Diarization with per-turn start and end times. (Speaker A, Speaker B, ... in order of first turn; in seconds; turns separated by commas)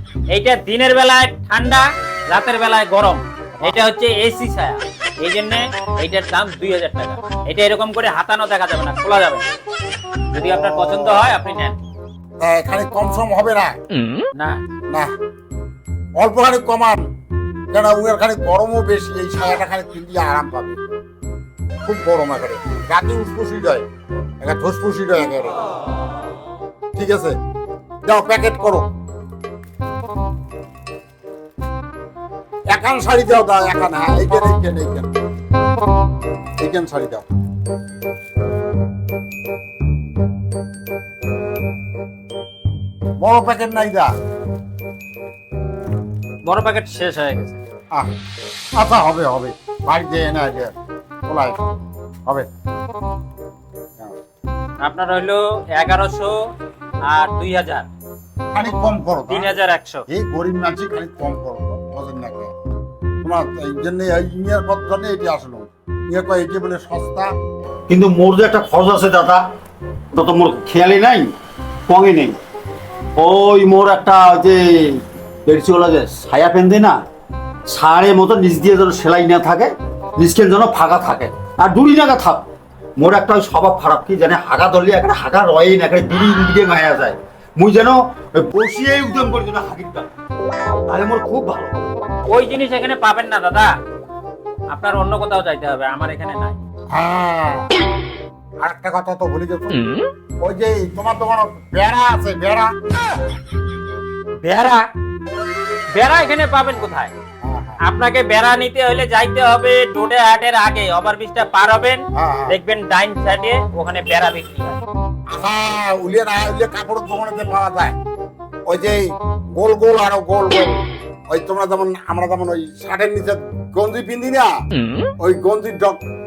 Speaker A: 0.3-9.4, Speaker B: 3.6-3.8, Speaker B: 10.3-11.3, Speaker A: 10.3-11.8, Speaker B: 12.4-13.8, Speaker A: 14.3-14.6, Speaker B: 16.2-17.1, Speaker B: 17.7-20.8, Speaker B: 21.8-23.9, Speaker B: 24.4-25.6, Speaker B: 26.9-27.4, Speaker B: 28.0-28.9, Speaker B: 32.7-35.1, Speaker B: 36.6-37.2, Speaker B: 43.2-44.1, Speaker A: 46.4-47.6, Speaker B: 48.8-50.7, Speaker B: 51.3-51.6, Speaker A: 54.8-56.4, Speaker A: 57.0-57.9, Speaker B: 58.5-59.5, Speaker A: 59.3-60.0, Speaker B: 60.1-62.5, Speaker B: 63.2-67.3, Speaker C: 67.9-69.5, Speaker C: 70.1-71.3, Speaker C: 71.9-72.4, Speaker C: 73.2-77.0, Speaker C: 77.7-82.5, Speaker C: 83.0-90.1, Speaker C: 90.9-91.8, Speaker A: 92.3-93.7, Speaker A: 94.7-96.6, Speaker B: 96.9-97.7, Speaker B: 98.6-102.7, Speaker A: 104.4-104.8, Speaker A: 105.9-107.1, Speaker B: 107.4-107.8, Speaker A: 107.8-114.8, Speaker B: 112.1-112.5, Speaker B: 115.3-118.0, Speaker B: 118.7-120.8, Speaker B: 121.3-124.5, Speaker B: 125.2-126.0